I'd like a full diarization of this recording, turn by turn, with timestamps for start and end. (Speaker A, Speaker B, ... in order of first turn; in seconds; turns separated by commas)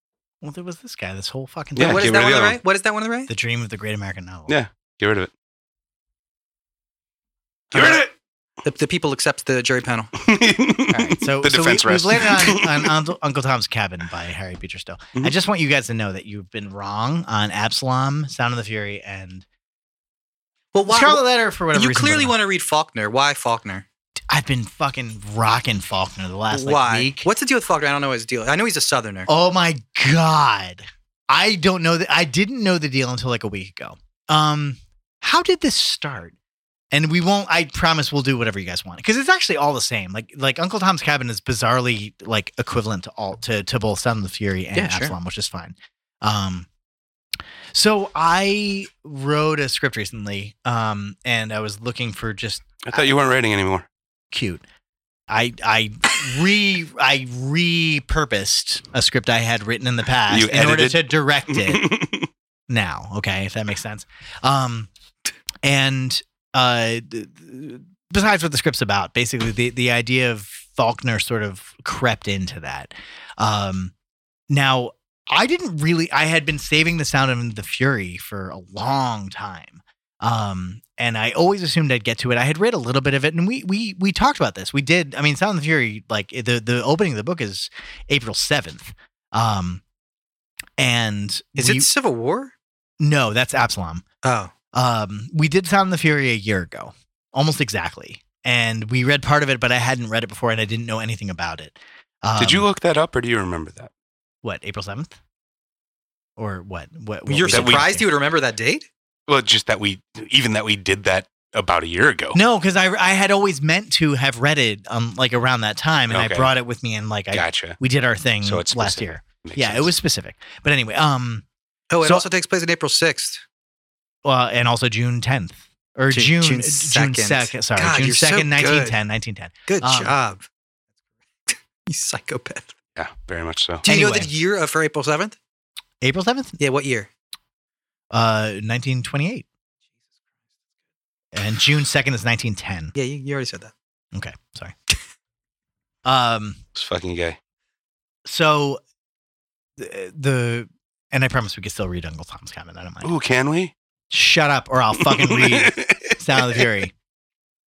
Speaker A: 0.4-2.2, Speaker B: 1.8-2.6, Speaker C: 1.8-3.3, Speaker A: 3.3-4.5, Speaker B: 4.5-5.3, Speaker C: 7.7-8.1, Speaker B: 7.7-8.1, Speaker C: 8.6-10.1, Speaker B: 10.2-12.9, Speaker A: 10.9-19.4, Speaker C: 20.7-23.9, Speaker A: 20.9-22.3, Speaker A: 24.3-27.3, Speaker C: 26.5-29.3, Speaker A: 29.3-36.4, Speaker A: 36.9-46.7, Speaker C: 44.7-45.1, Speaker A: 47.7-53.1, Speaker B: 52.8-53.9, Speaker A: 54.3-54.6, Speaker A: 55.3-61.9, Speaker B: 60.3-62.3, Speaker A: 62.7-64.9, Speaker A: 65.6-73.9, Speaker A: 74.5-89.8, Speaker A: 90.8-91.9, Speaker C: 91.5-92.5, Speaker A: 93.0-94.0, Speaker C: 94.2-94.5, Speaker A: 94.7-102.7, Speaker B: 102.4-103.9, Speaker A: 104.4-105.2, Speaker A: 106.4-108.1, Speaker C: 107.2-108.9, Speaker B: 107.5-107.9, Speaker B: 109.3-112.4, Speaker A: 112.3-121.4, Speaker B: 116.1-116.5, Speaker B: 117.3-117.8, Speaker B: 118.4-119.9, Speaker C: 121.9-123.4, Speaker A: 124.2-130.1, Speaker C: 126.1-128.9, Speaker C: 129.7-130.5, Speaker C: 131.5-132.7, Speaker B: 133.0-133.8, Speaker A: 133.8-134.3, Speaker C: 133.8-135.4, Speaker A: 136.0-136.6, Speaker C: 136.6-137.1, Speaker A: 138.1-139.4, Speaker A: 141.3-142.9, Speaker C: 142.9-143.7, Speaker A: 144.1-144.7, Speaker A: 146.0-146.6, Speaker B: 146.7-147.4, Speaker A: 148.2-148.8, Speaker A: 149.8-153.1, Speaker B: 153.0-153.7, Speaker A: 154.1-156.9, Speaker B: 155.0-156.6